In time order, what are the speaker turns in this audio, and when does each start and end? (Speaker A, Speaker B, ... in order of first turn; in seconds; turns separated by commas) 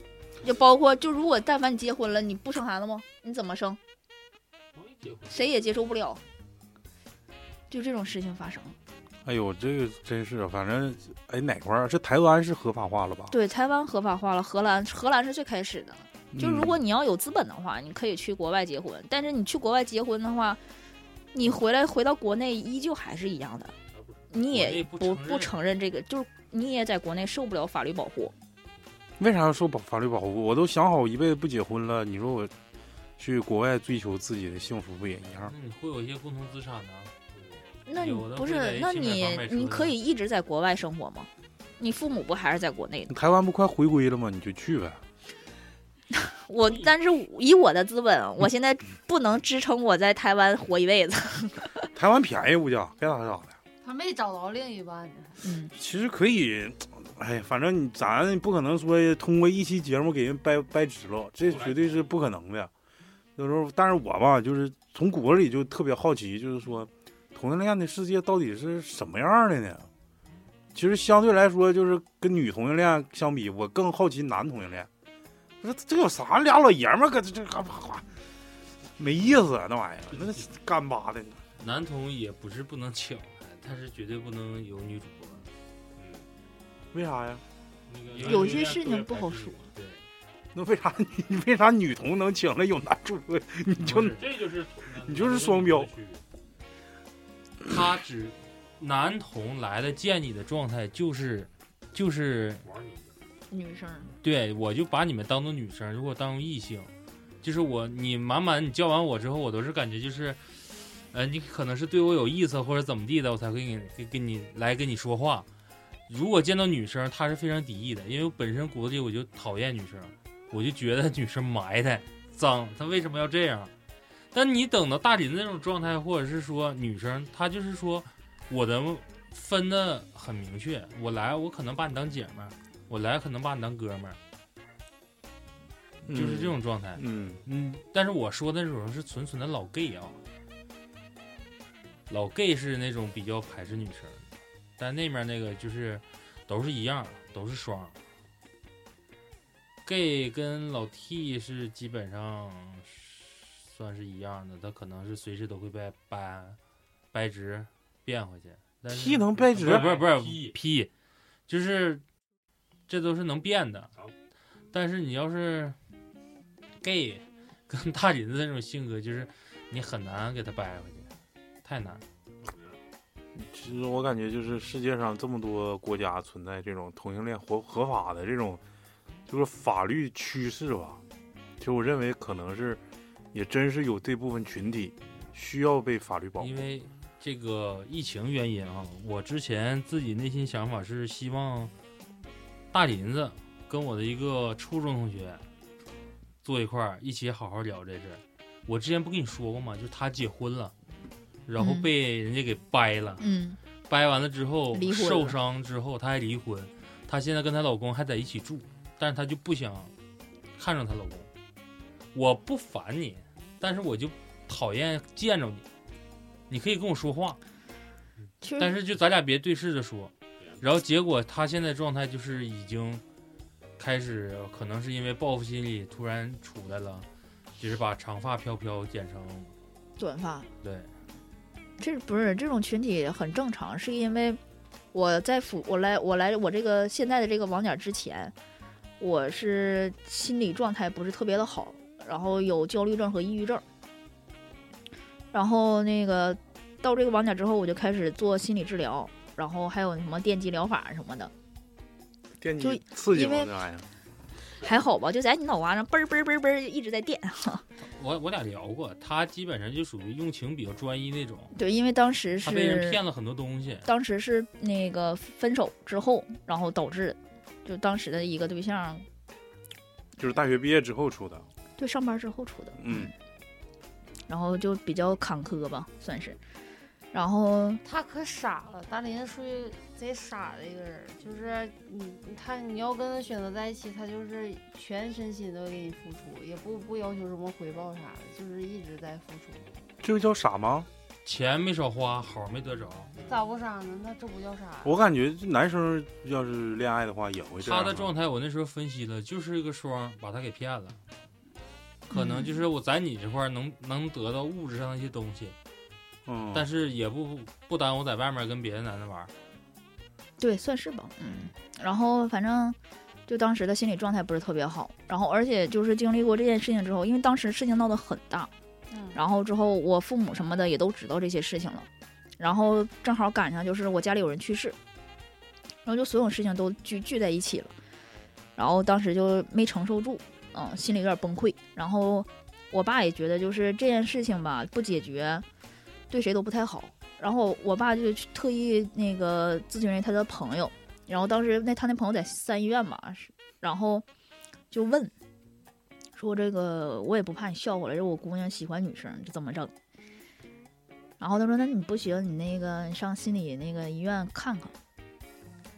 Speaker A: 0.4-3.8, Speaker B: 4.7-5.5, Speaker A: 5.3-6.2, Speaker A: 7.7-8.7, Speaker C: 9.2-13.3, Speaker A: 13.3-20.6, Speaker C: 16.3-16.8, Speaker A: 21.3-23.7, Speaker B: 23.9-24.2, Speaker A: 24.3-28.3, Speaker D: 24.4-25.5, Speaker C: 29.2-32.5, Speaker C: 33.2-35.5, Speaker D: 35.5-37.1, Speaker B: 37.3-37.6, Speaker A: 37.9-43.1, Speaker D: 37.9-40.0, Speaker C: 43.1-45.0, Speaker A: 46.1-51.9, Speaker C: 51.9-53.5, Speaker E: 53.8-55.4, Speaker A: 55.4-55.7, Speaker C: 55.7-62.7, Speaker B: 61.4-62.1, Speaker C: 63.4-69.9, Speaker C: 70.7-74.9, Speaker C: 75.6-78.0, Speaker C: 79.0-81.4, Speaker B: 80.1-80.4, Speaker D: 81.6-85.5, Speaker B: 86.0-86.3, Speaker C: 86.9-87.4, Speaker B: 87.9-89.7, Speaker D: 88.0-88.8, Speaker A: 88.2-89.6, Speaker D: 89.7-90.0, Speaker C: 90.5-94.3, Speaker D: 93.8-94.2, Speaker B: 93.9-96.2, Speaker C: 95.0-95.9, Speaker D: 97.6-102.7, Speaker B: 102.6-103.1, Speaker A: 103.5-104.1, Speaker D: 104.2-106.9, Speaker D: 107.4-115.5, Speaker D: 116.1-123.7, Speaker D: 124.3-134.2, Speaker C: 136.1-137.8, Speaker D: 136.1-137.0, Speaker D: 137.8-140.2, Speaker D: 142.1-148.0, Speaker D: 149.8-156.6, Speaker D: 157.1-160.9, Speaker C: 158.9-160.0, Speaker B: 159.5-160.6, Speaker D: 161.5-162.0, Speaker D: 162.9-163.9, Speaker D: 164.7-165.8, Speaker D: 166.8-171.1, Speaker D: 171.6-172.0, Speaker B: 172.4-172.8, Speaker C: 173.4-178.6, Speaker C: 179.3-181.0, Speaker C: 181.6-182.8, Speaker C: 183.3-186.7, Speaker D: 186.4-191.7, Speaker D: 192.7-195.4, Speaker D: 196.4-200.7, Speaker D: 201.5-203.2, Speaker A: 201.6-201.9, Speaker A: 203.2-203.6, Speaker D: 203.9-209.9, Speaker A: 204.7-205.3, Speaker D: 210.6-211.3, Speaker D: 212.1-215.6, Speaker D: 216.5-217.4, Speaker A: 218.4-218.8, Speaker D: 218.6-223.0, Speaker B: 220.4-220.7, Speaker D: 223.8-227.1, Speaker D: 227.6-229.5, Speaker A: 230.0-230.5, Speaker D: 230.6-230.9, Speaker A: 231.8-234.4, Speaker A: 234.9-238.3, Speaker A: 239.0-243.6, Speaker A: 245.3-251.3, Speaker C: 252.4-253.9, Speaker A: 252.6-253.5, Speaker A: 254.6-257.6, Speaker D: 257.8-261.5, Speaker A: 261.5-263.0, Speaker D: 262.4-263.9, Speaker A: 263.8-269.0, Speaker C: 270.2-271.4, Speaker A: 271.8-273.1, Speaker C: 272.8-273.1, Speaker A: 274.3-276.4, Speaker A: 277.1-277.8, Speaker E: 277.8-289.7, Speaker C: 290.0-290.9, Speaker D: 291.2-293.1, Speaker E: 293.3-294.9, Speaker C: 294.8-298.1, Speaker D: 297.6-301.0, Speaker A: 302.1-302.6, Speaker D: 302.1-305.5, Speaker C: 306.2-306.7, Speaker D: 306.5-309.3, Speaker A: 310.4-312.8, Speaker A: 313.3-318.5, Speaker E: 318.9-319.2, Speaker A: 319.1-321.9, Speaker A: 322.4-324.8, Speaker A: 325.8-327.7, Speaker A: 328.6-335.4, Speaker A: 336.1-344.0, Speaker A: 344.7-345.1, Speaker A: 346.1-349.7, Speaker A: 351.2-354.7